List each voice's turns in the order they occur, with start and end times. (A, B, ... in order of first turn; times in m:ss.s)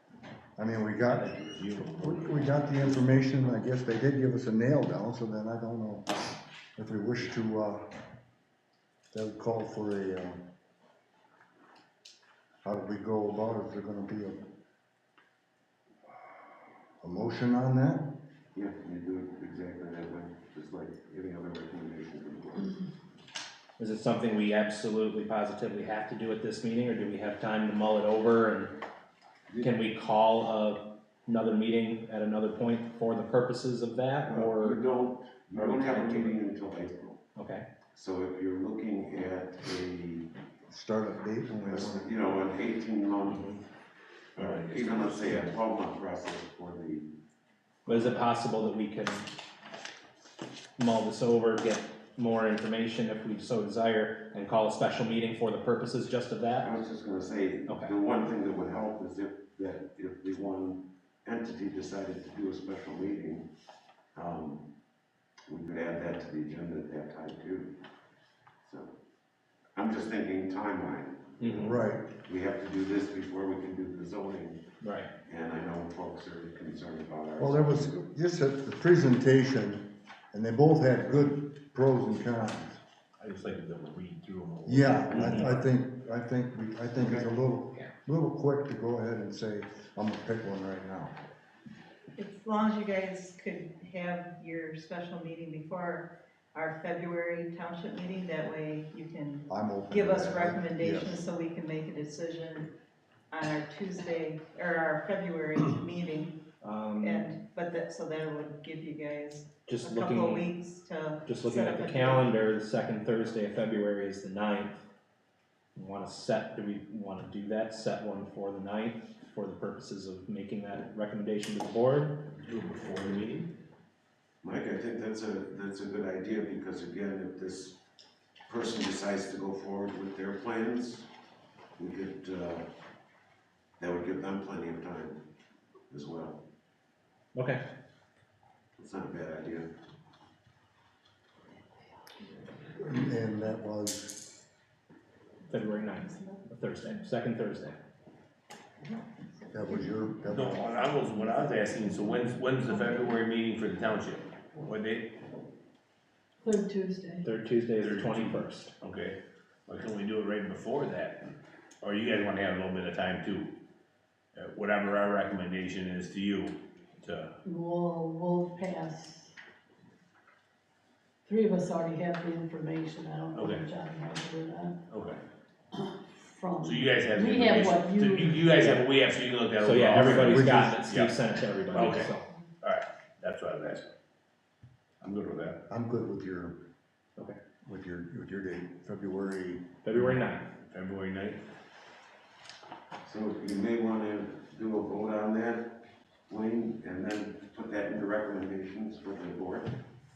0:00.6-0:01.4 A
0:01.1-0:03.2 B
0:02.0-0:06.1 A
0:06.8-0:07.8 A
0:09.1-0:10.4 A
0:12.6-0:14.4 A
0:17.0-0:18.1 A
0:18.5-0:22.8 C
0:23.8-0:28.8 D
0:29.6-0:34.8 D
0:34.2-0:37.2 C
0:35.5-0:36.4 D
0:37.4-0:37.7 D
0:38.0-0:40.3 C
0:40.7-0:42.2 A
0:41.6-0:43.5 C
0:43.3-0:43.6 D
0:44.4-0:47.1 C
0:44.4-0:45.5 B
0:47.9-0:49.4 D
0:47.9-0:48.2 C
0:50.8-0:56.7 D
0:56.6-1:03.5 C
0:57.7-0:57.9 D
1:04.2-1:04.6 C
1:05.5-1:07.7 C
1:08.6-1:09.0 C
1:09.8-1:14.6 C
1:11.4-1:11.8 D
1:11.5-1:12.1 A
1:14.8-1:15.1 D
1:15.3-1:17.9 C
1:17.4-1:22.8 A
1:23.2-1:25.7 B
1:24.6-1:31.2 A
1:25.1-1:25.5 D
1:27.0-1:27.3 C
1:32.2-1:42.7 E
1:39.5-1:41.2 A
1:43.3-1:46.4 E
1:46.6-1:47.3 D
1:47.0-1:52.3 E
1:49.7-1:50.5 D
1:51.2-1:54.8 D
1:55.8-2:02.3 D
2:02.4-2:03.5 B
2:04.4-2:07.8 C
2:08.5-2:11.1 C
2:11.8-2:12.6 C
2:13.8-2:15.2 C
2:15.9-2:16.4 C
2:17.4-2:17.6 D
2:18.8-2:19.7 C
2:22.7-2:24.2 A
2:25.5-2:27.8 D
2:26.0-2:26.4 E
2:29.4-2:29.8 E
2:29.5-2:31.0 A
2:30.3-2:35.1 B
2:36.4-2:37.3 F
2:37.2-2:38.7 D
2:37.8-2:43.5 B
2:44.4-2:47.3 B
2:47.4-2:49.3 F
2:51.2-2:54.8 F
2:53.3-2:53.7 B
2:54.9-2:55.2 B
2:55.7-2:58.6 F
2:56.6-3:01.1 B
2:59.6-3:02.3 D
3:00.0-3:00.8 A
3:01.7-3:03.9 B
3:05.0-3:05.6 B
3:05.7-3:06.6 A
3:07.6-3:09.6 A
3:09.8-3:10.5 D
3:09.9-3:11.4 B
3:13.0-3:15.7 C
3:16.3-3:19.8 C